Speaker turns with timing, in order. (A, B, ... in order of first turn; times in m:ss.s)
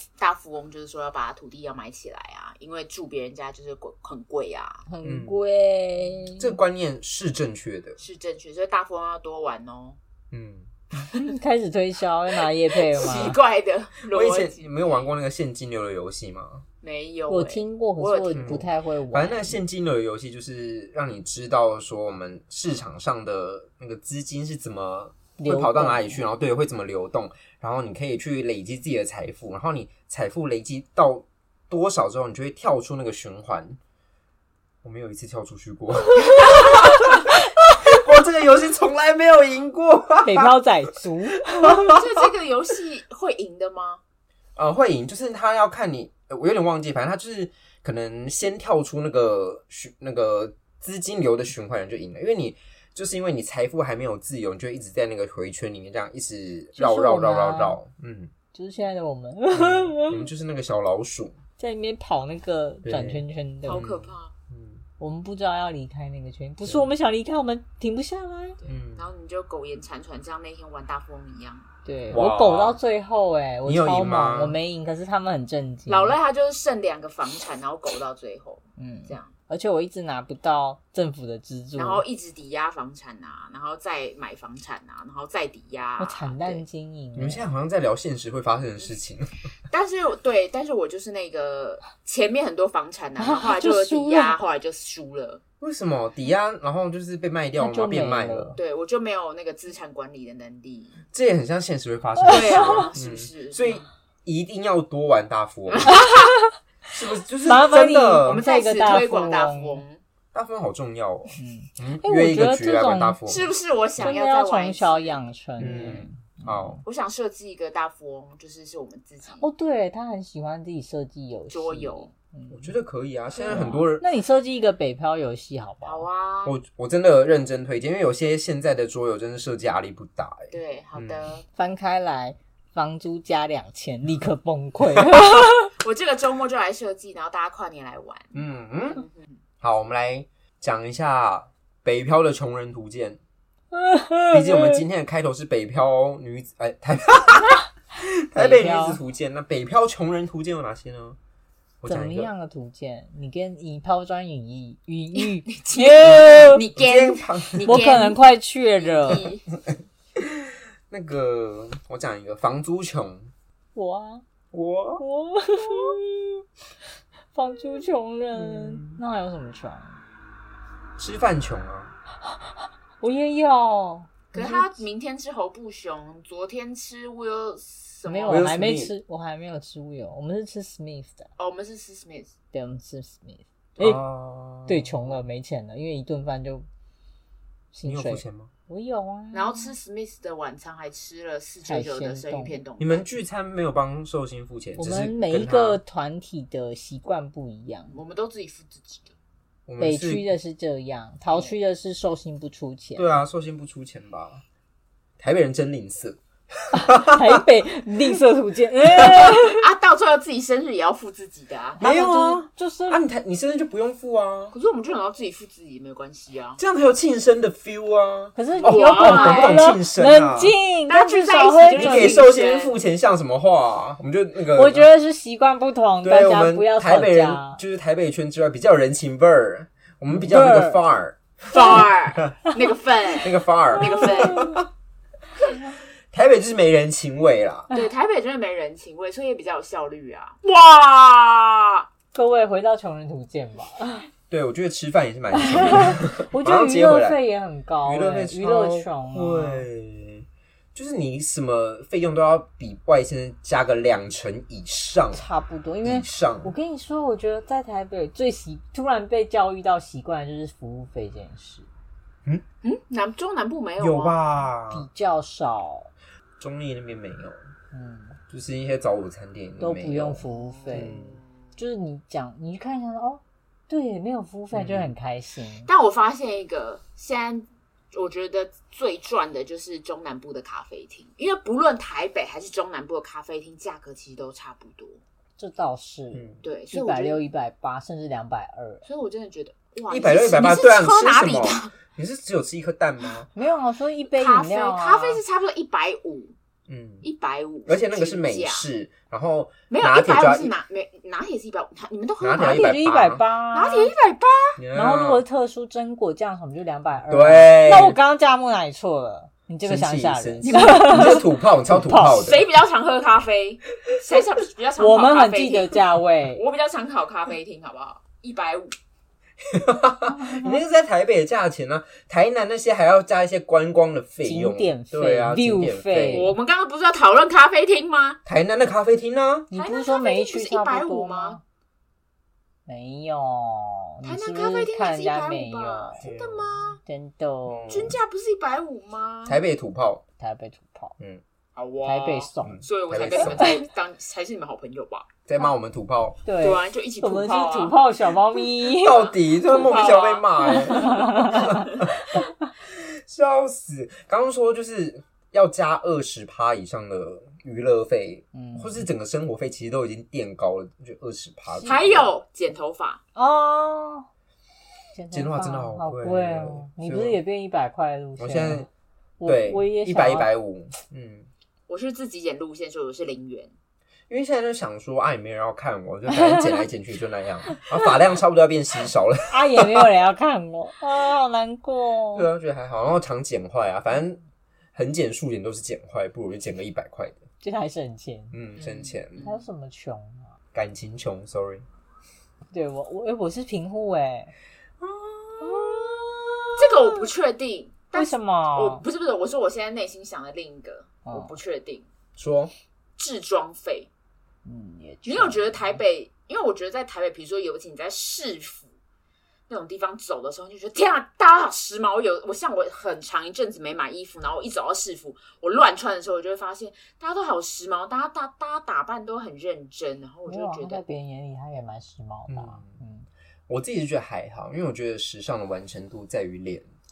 0:00.2-0:04.8 A
0:04.9-0:06.5 B
0:05.0-0:05.4 C
0:06.4-0:08.0 C
0:08.0-0:10.0 A
0:10.3-0:10.7 C
0:11.1-0:13.4 B
0:12.7-0:14.7 A
0:14.0-0:16.6 C
0:16.8-0:18.6 A
0:17.3-0:19.6 B
0:18.4-0:33.8 C
0:25.4-0:26.2 B
0:34.8-0:40.6 C
0:40.2-0:41.9 B
0:41.6-0:42.0 C
0:41.8-0:44.0 A
0:44.6-0:58.3 C
0:56.8-0:57.8 B
0:58.5-1:00.3 B
0:59.5-1:01.4 C
1:01.6-1:03.9 B
1:02.8-1:04.8 C
1:03.6-1:04.3 A
1:05.0-1:08.6 B
1:08.6-1:11.7 A
1:08.6-1:09.0 C
1:11.8-1:16.2 B
1:12.1-1:12.8 C
1:13.6-1:14.6 C
1:15.9-1:19.3 A
1:18.8-1:22.0 B
1:21.8-1:26.6 A
1:26.0-1:27.5 B
1:27.2-1:29.4 C
1:29.7-1:35.4 A
1:33.2-1:34.4 B
1:35.6-1:38.6 C
1:37.6-1:38.6 B
1:38.6-1:41.0 A
1:41.1-1:46.0 C
1:42.2-1:42.9 B
1:42.3-1:43.8 A
1:45.7-1:46.3 A
1:45.9-1:46.5 B
1:46.9-1:48.4 C
1:47.4-1:49.8 B
1:48.2-1:50.0 A
1:50.3-1:53.5 C
1:51.4-1:53.2 B
1:53.3-1:56.0 A
1:54.0-1:56.8 B
1:55.6-1:56.8 C
1:56.8-1:59.5 A
1:59.3-2:02.7 B
2:01.5-2:02.1 A
2:02.5-2:04.0 C
2:03.4-2:03.7 A
2:03.5-2:06.1 B
2:05.8-2:06.6 A
2:06.4-2:11.3 C
2:10.5-2:11.4 A
2:11.6-2:15.7 B
2:15.8-2:18.4 A
2:18.3-2:19.0 C
2:18.9-2:19.4 A
2:19.6-2:23.2 C
2:23.7-2:24.8 B
2:24.3-2:31.2 C
2:28.3-2:29.0 B
2:31.8-2:32.3 C
2:31.9-2:36.6 B
2:35.2-2:38.2 A
2:36.1-2:38.0 C
2:37.6-2:39.3 B
2:38.8-2:39.4 A
2:40.2-2:43.3 C
2:43.8-2:44.2 B
2:44.5-2:45.0 C
2:45.0-2:46.0 B
2:47.3-2:50.0 B
2:48.4-2:49.0 C
2:51.0-2:51.9 C
2:52.2-2:54.8 B
2:54.3-2:58.5 A
2:58.1-3:01.3 B
2:58.3-2:58.9 C
3:01.4-3:02.3 A
3:02.5-3:04.0 B
3:03.8-3:05.2 C
3:04.7-3:06.7 B
3:07.7-3:09.7 B
3:07.8-3:08.5 C
3:09.3-3:13.0 A
3:11.7-3:12.6 B
3:12.8-3:15.8 C
3:14.8-3:18.0 B
3:17.9-3:19.1 A
3:19.7-3:20.2 C
3:19.8-3:23.2 B
3:23.0-3:24.4 C
3:25.2-3:27.4 C
3:26.7-3:29.6 B
3:29.0-3:29.2 C
3:29.5-3:31.8 A
3:31.8-3:33.0 B
3:31.8-3:34.6 C
3:34.5-3:36.6 A
3:36.6-3:40.5 C
3:38.4-3:42.2 B
3:38.6-3:39.8 A
3:40.9-3:42.8 A
3:41.8-3:44.9 C
3:44.5-3:47.6 B
3:46.0-3:52.3 C
3:50.1-3:50.8 B
3:51.5-3:54.5 A
3:53.2-3:54.7 C
3:54.2-3:54.6 B
3:56.1-3:57.7 C
3:57.7-4:01.9 A
4:02.1-4:04.1 B
4:04.3-4:07.2 C
4:05.3-4:09.6 B
4:07.8-4:15.2 C
4:15.1-4:21.7 B
4:15.8-4:16.5 C
4:22.6-4:24.2 A
4:23.8-4:24.9 C
4:24.7-4:25.9 B
4:26.4-4:27.4 C
4:27.7-4:28.2 B
4:28.3-4:31.2 C
4:29.6-4:31.0 B
4:30.3-4:31.2 A
4:31.6-4:35.7 B
4:34.5-4:34.9 C
4:35.7-4:45.0 A
4:45.4-4:48.8 B
4:46.1-4:46.4 C
4:46.4-4:47.2 A
4:48.8-4:51.7 A
4:49.9-4:53.3 C
4:53.3-4:55.2 B
4:54.1-4:56.3 A
4:56.7-4:57.1 C
4:57.0-4:58.6 A
4:57.7-5:00.5 C
4:59.7-5:02.8 A
5:02.2-5:03.2 C
5:02.4-5:03.9 B
5:03.5-5:04.6 A
5:04.6-5:05.2 C
5:04.7-5:12.3 B
5:07.1-5:08.0 C
5:09.6-5:12.4 C
5:10.4-5:11.2 A
5:12.0-5:15.8 A
5:14.8-5:16.4 B
5:16.3-5:18.8 A
5:19.4-5:26.3 C
5:20.2-5:20.6 B
5:24.2-5:26.3 B
5:26.1-5:28.2 A
5:28.3-5:29.5 C
5:29.5-5:31.4 B
5:29.5-5:31.4 A
5:32.7-5:36.1 B
5:34.0-5:36.8 A
5:36.0-5:36.7 C
5:36.9-5:37.9 B
5:37.5-5:38.0 C
5:37.7-5:39.4 A
5:39.3-5:40.0 C
5:40.2-5:41.0 B
5:41.6-5:45.1 A
5:41.8-5:42.6 B
5:42.4-5:43.6 C
5:43.2-5:43.6 B
5:45.3-5:46.2 C
5:46.2-5:49.1 B
5:46.4-5:47.8 A
5:48.8-6:02.1 C
5:48.9-5:51.8 A
5:50.5-5:52.2 B
5:58.3-5:58.8 B
6:01.5-6:01.9 B
6:01.6-6:03.0 A
6:03.2-6:04.1 B
6:04.9-6:08.7 B
6:05.1-6:07.2 C
6:08.2-6:08.7 C
6:09.2-6:10.3 B
6:09.2-6:11.3 C
6:11.7-6:13.5 A
6:14.1-6:19.8 C
6:16.1-6:16.6 B
6:19.3-6:22.3 B
6:22.1-6:24.2 C
6:24.8-6:27.2 C
6:27.4-6:28.4 B
6:28.3-6:29.2 C
6:28.7-6:29.4 A
6:29.2-6:30.3 B
6:30.5-6:31.6 C
6:32.5-6:34.3 B
6:34.8-6:36.8 C
6:35.4-6:36.0 B
6:36.6-6:41.9 A
6:37.9-6:38.8 B
6:41.1-6:41.4 B
6:42.2-6:42.5 C
6:43.0-6:43.9 A
6:44.4-6:45.8 B
6:45.1-6:48.7 A
6:49.5-7:00.8 A
7:00.3-7:03.1 B
7:02.3-7:02.8 C
7:03.5-7:06.7 C